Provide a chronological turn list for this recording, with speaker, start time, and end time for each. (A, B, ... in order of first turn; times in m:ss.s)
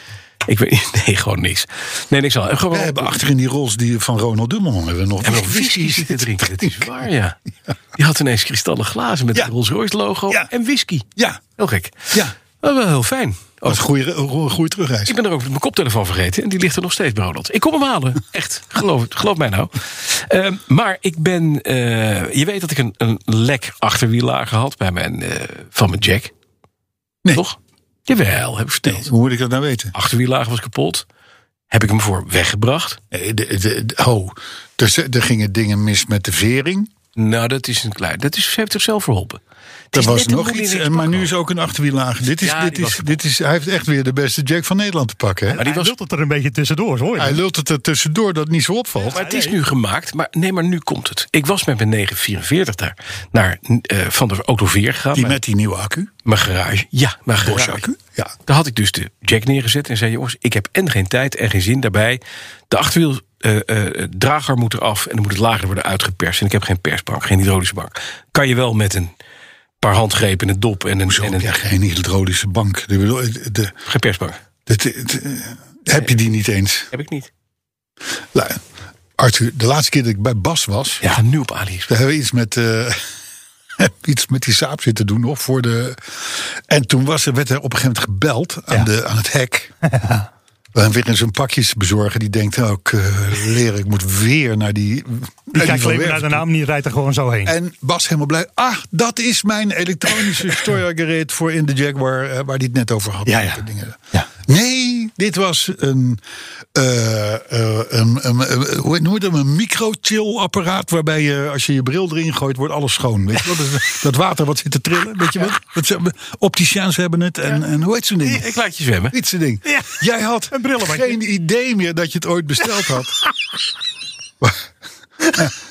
0:00.5-0:03.2 A
0:02.7-0:07.0 B
0:05.2-0:07.4 A
0:08.0-0:11.1 A
0:11.2-0:11.4 B
0:11.6-0:13.8 A
0:13.6-0:15.2 B
0:15.1-0:26.3 A
0:27.3-0:29.1 A
0:28.8-0:29.9 B
0:29.9-0:31.0 A
0:31.7-0:33.0 A
0:33.1-0:36.9 B
0:37.2-0:39.4 A
0:39.9-0:41.3 A
0:39.9-0:45.6 B
0:42.3-0:43.2 A
0:45.5-0:47.4 C
0:45.6-0:46.0 A
0:47.2-0:49.2 B
0:49.1-0:49.6 C
0:49.1-0:55.4 A
0:55.1-0:56.1 B
0:56.2-0:57.9 A
0:57.4-0:58.3 B
0:58.5-1:09.1 A
1:09.8-1:11.5 A
1:11.1-1:13.8 B
1:13.9-1:14.4 A
1:14.7-1:16.9 B
1:16.9-1:17.3 A
1:18.3-1:18.6 B
1:19.2-1:21.2 B
1:21.0-1:21.9 A
1:21.9-1:23.0 B
1:23.8-1:29.7 B
1:29.9-1:30.3 C
1:30.7-1:36.5 B
1:35.6-1:37.6 C
1:37.4-1:46.2 B
1:43.3-1:43.6 C
1:46.7-1:58.5 B
1:58.2-1:59.2 A
1:59.1-2:03.2 B
1:59.7-2:01.2 C
2:05.2-2:05.5 B